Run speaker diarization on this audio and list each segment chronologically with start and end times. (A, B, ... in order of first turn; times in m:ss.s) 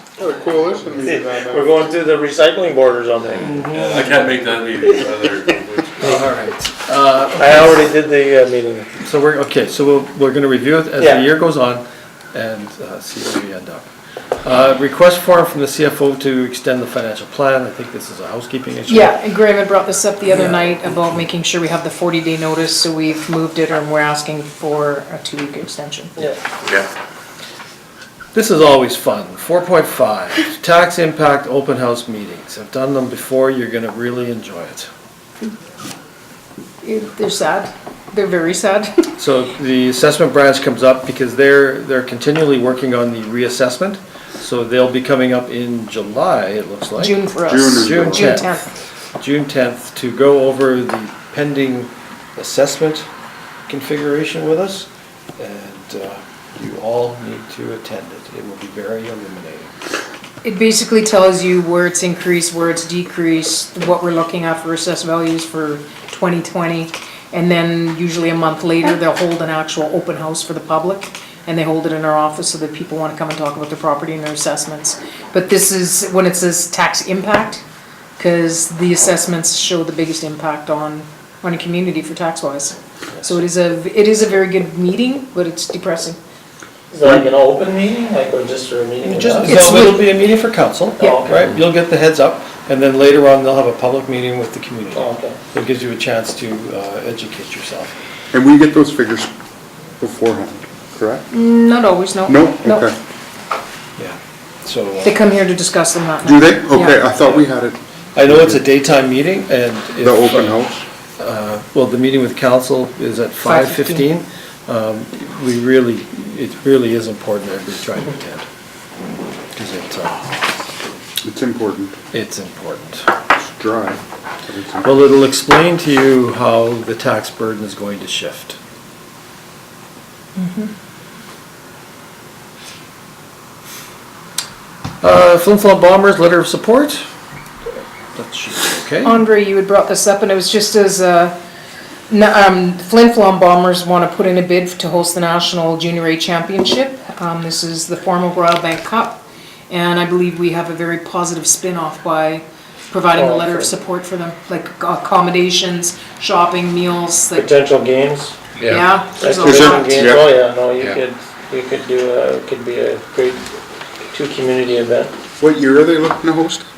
0:00.2-0:01.9 A
0:01.0-0:03.6 B
0:03.4-0:04.5 C
0:03.4-0:06.2 D
0:06.0-0:07.8 C
0:06.0-0:06.3 B
0:07.4-0:08.9 B
0:09.0-0:13.9 C
0:11.0-0:11.3 B
0:14.4-0:19.2 C
0:18.9-0:26.2 E
0:26.2-0:26.6 B
0:28.3-0:34.9 C
0:36.8-0:39.1 E
0:39.2-0:48.6 C
0:47.0-0:48.7 E
0:47.5-0:48.4 A
0:49.2-0:53.1 C
0:53.7-0:54.9 C
0:55.4-0:59.7 C
1:00.4-1:17.6 E
1:18.2-1:26.2 E
1:26.9-1:29.6 B
1:29.0-1:37.9 C
1:29.4-1:30.1 E
1:31.0-1:31.5 B
1:34.9-1:35.4 B
1:38.3-1:39.3 A
1:40.0-1:41.3 A
1:41.3-1:42.9 E
1:42.3-1:42.9 A
1:44.0-1:45.2 C
1:45.0-1:47.0 E
1:46.2-1:48.6 A
1:47.2-1:47.5 C
1:48.2-1:50.6 C
1:50.0-1:50.8 A
1:51.2-1:58.5 C
1:53.4-1:54.1 E
1:59.5-2:00.4 C
2:01.2-2:02.0 A
2:02.1-2:03.1 C
2:03.4-2:04.9 A
2:04.8-2:08.6 C
2:10.4-2:10.7 E
2:15.0-2:17.1 C
2:18.2-2:19.2 C
2:19.0-2:21.4 E
2:22.1-2:37.5 E
2:33.2-2:33.7 B
2:37.4-2:38.4 B
2:38.7-2:40.2 E
2:39.2-2:43.4 B
2:39.4-2:40.3 A
2:44.1-2:45.1 B
2:45.4-2:46.6 A